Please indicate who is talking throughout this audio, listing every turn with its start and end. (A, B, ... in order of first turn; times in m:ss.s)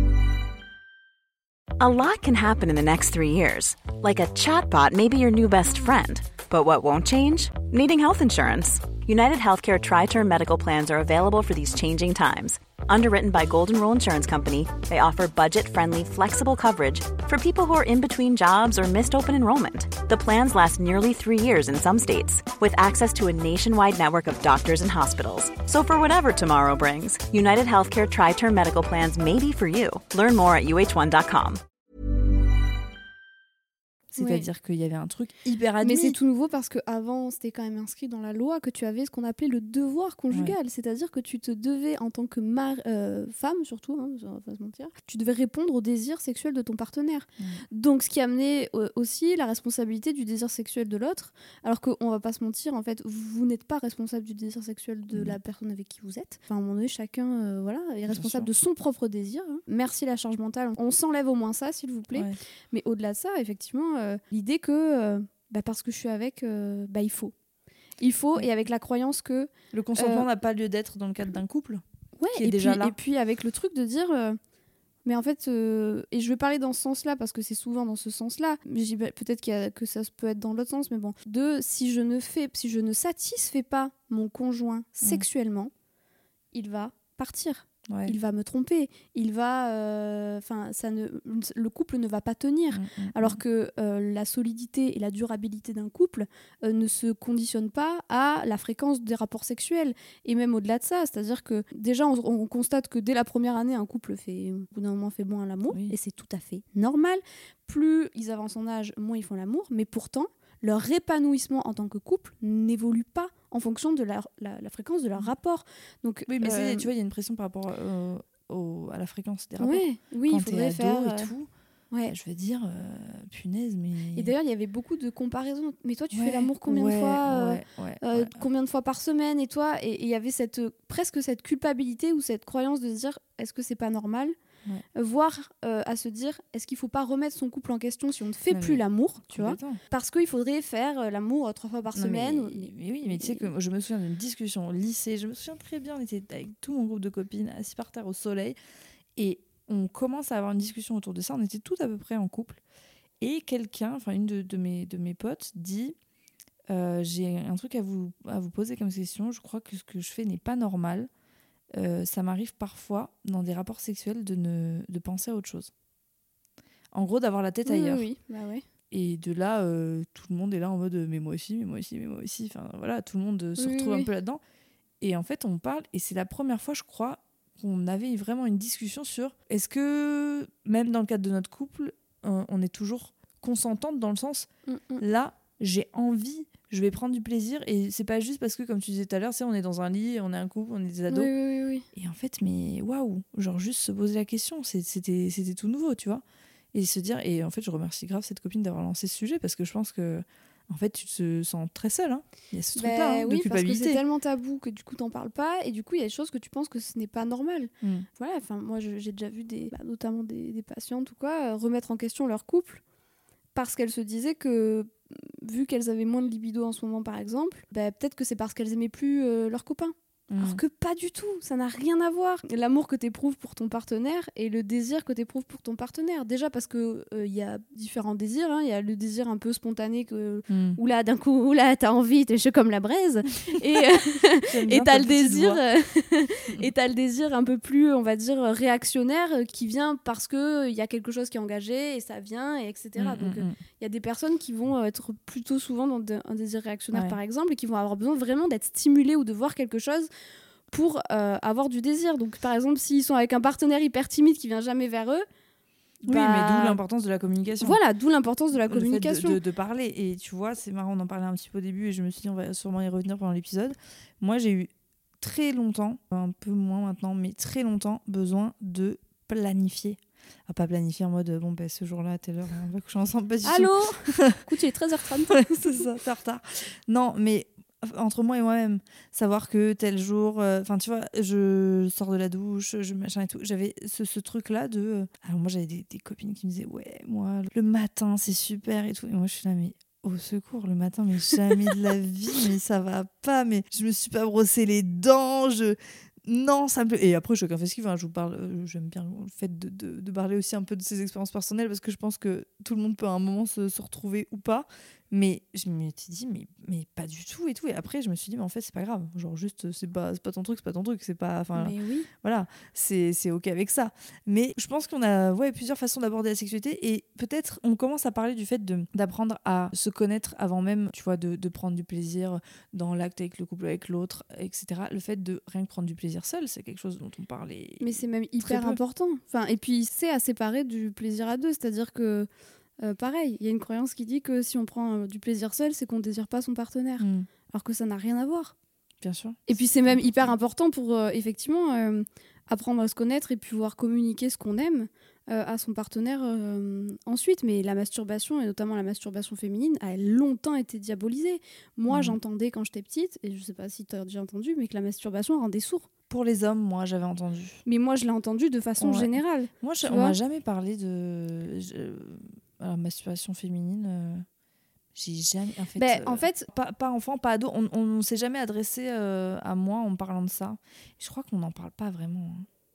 0:01.8-0:31.6 A
0:34.1-0:36.2 B
0:34.2-0:34.5 C
0:35.8-1:07.3 C
0:55.1-0:55.4 B
0:58.1-0:58.5 B
1:02.1-1:02.4 B
1:08.0-1:10.3 C
1:09.7-1:11.8 B
1:12.2-1:14.4 C
1:12.4-1:12.9 B
1:15.0-1:25.7 C
1:26.5-1:56.9 C
1:27.9-1:28.1 B
1:32.7-1:33.4 B
1:56.3-2:01.5 B
1:59.6-2:01.3 C
2:02.1-2:04.3 B
2:04.1-2:14.4 C
2:06.1-2:08.4 B
2:14.9-2:23.5 C
2:18.5-2:19.8 B
2:21.9-2:28.6 B
2:29.2-2:32.6 B
2:33.2-2:35.9 B
2:36.7-2:41.1 B
2:41.7-2:45.7 B
2:46.9-2:48.1 B
2:47.6-2:48.6 C
2:48.9-2:54.4 B
2:53.6-2:54.1 C
2:55.0-3:04.5 B
3:04.7-3:05.0 C
3:05.0-3:11.3 B
3:11.1-3:11.9 C
3:11.9-3:24.0 B
3:22.8-3:32.8 C
3:27.8-3:28.1 B
3:33.5-4:10.1 C
3:40.3-3:40.6 B
3:50.5-3:50.8 B
3:54.4-3:55.6 B
4:03.0-4:03.6 B
4:06.9-4:07.2 B
4:10.7-4:15.2 C
4:16.0-4:17.8 B
4:16.1-4:16.8 C
4:17.6-4:19.4 C
4:18.6-4:34.4 B
4:33.4-4:35.8 C
4:35.3-5:27.9 B
5:11.5-5:12.1 C
5:27.8-5:32.3 C
5:28.4-5:28.8 B
5:32.8-5:38.5 C
5:37.0-5:37.3 B
5:39.0-5:40.3 B
5:39.5-5:55.9 C
5:51.9-5:52.2 B
5:56.1-5:57.6 B
5:57.6-6:00.2 C
5:58.8-6:04.2 B
6:04.9-6:12.5 B
6:05.7-6:06.5 C